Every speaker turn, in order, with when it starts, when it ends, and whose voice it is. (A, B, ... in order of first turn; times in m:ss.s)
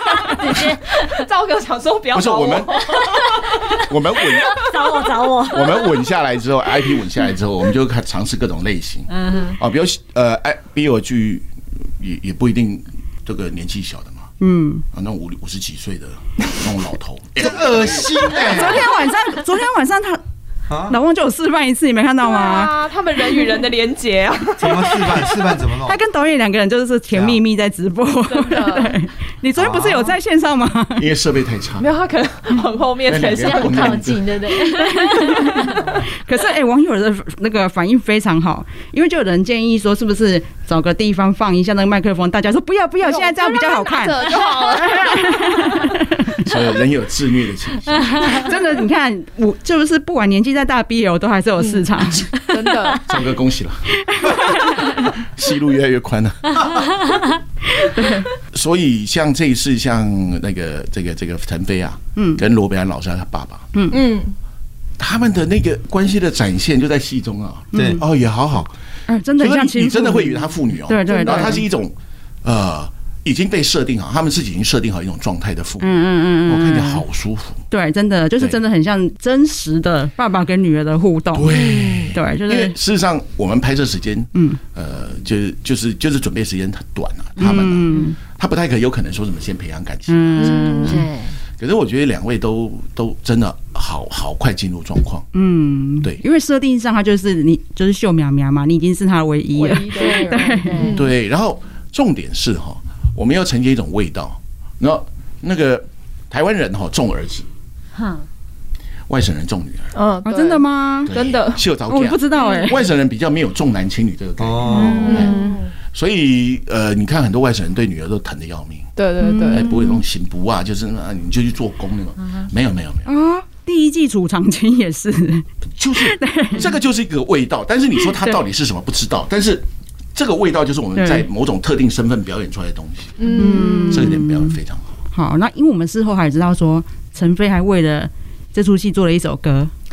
0:00.2-0:01.3 A
0:01.0-0:03.3 B
0:02.1-0:03.2 C
0:03.0-0:03.7 A
0:03.7-0:04.7 C
0:04.5-0:06.1 A
0:05.4-0:11.4 C
0:09.1-0:09.6 A
0:12.0-0:14.3 C
0:14.4-0:14.8 D
0:14.9-0:18.7 C
0:17.4-0:18.8 E
0:18.4-0:20.2 D
0:20.7-0:21.0 E
0:20.9-0:22.7 D
0:22.2-0:25.4 B
0:24.6-0:26.0 E
0:25.8-0:31.1 D
0:27.1-0:27.4 E
0:28.3-0:29.0 B
0:29.6-0:30.1 E
0:31.0-0:31.9 C
0:31.8-0:34.0 B
0:33.0-0:34.4 C
0:33.4-0:36.0 A
0:34.6-0:46.5 D
0:43.0-0:45.5 B
0:46.4-0:48.5 C
0:48.1-0:48.4 A
0:48.2-0:52.3 D
0:51.6-0:51.9 B
0:52.5-0:53.1 B
0:53.0-0:56.9 C
0:54.0-0:55.0 D
0:56.7-0:57.3 A
0:57.8-0:58.3 D
0:58.5-1:03.7 C
1:02.2-1:02.4 D
1:03.9-1:04.3 B
1:05.0-1:08.7 C
1:07.7-1:08.0 D
1:07.7-1:08.0 E
1:09.1-1:11.6 D
1:09.4-1:11.9 C
1:11.2-1:11.5 B
1:12.4-1:15.9 C
1:15.8-1:17.0 D
1:16.4-1:17.6 C
1:17.7-1:21.6 D
1:21.3-1:30.6 C
1:21.5-1:22.1 B
1:22.1-1:22.7 D
1:24.3-1:24.6 D
1:27.4-1:28.2 D
1:30.1-1:31.0 D
1:30.4-1:31.0 B
1:30.4-1:31.4 A
1:31.6-1:35.3 C
1:35.3-1:40.9 D
1:39.5-1:41.1 B
1:40.0-1:41.0 A
1:40.9-1:47.4 C
1:47.9-1:48.2 A
1:49.1-1:49.9 C
1:49.9-1:51.6 B
1:50.2-1:51.1 D
1:51.1-1:55.3 C
1:51.9-1:52.8 D
1:52.4-1:52.8 B
1:54.4-1:55.3 E
1:54.7-1:55.7 B
1:54.7-1:55.6 D
1:55.9-1:58.9 C
1:59.0-1:59.8 B
1:59.2-2:00.0 D
1:59.5-2:03.1 C
2:03.0-2:06.7 D
2:05.8-2:14.8 C
2:11.0-2:11.3 D
2:13.2-2:14.1 B
2:13.3-2:14.6 D
2:15.1-2:19.7 D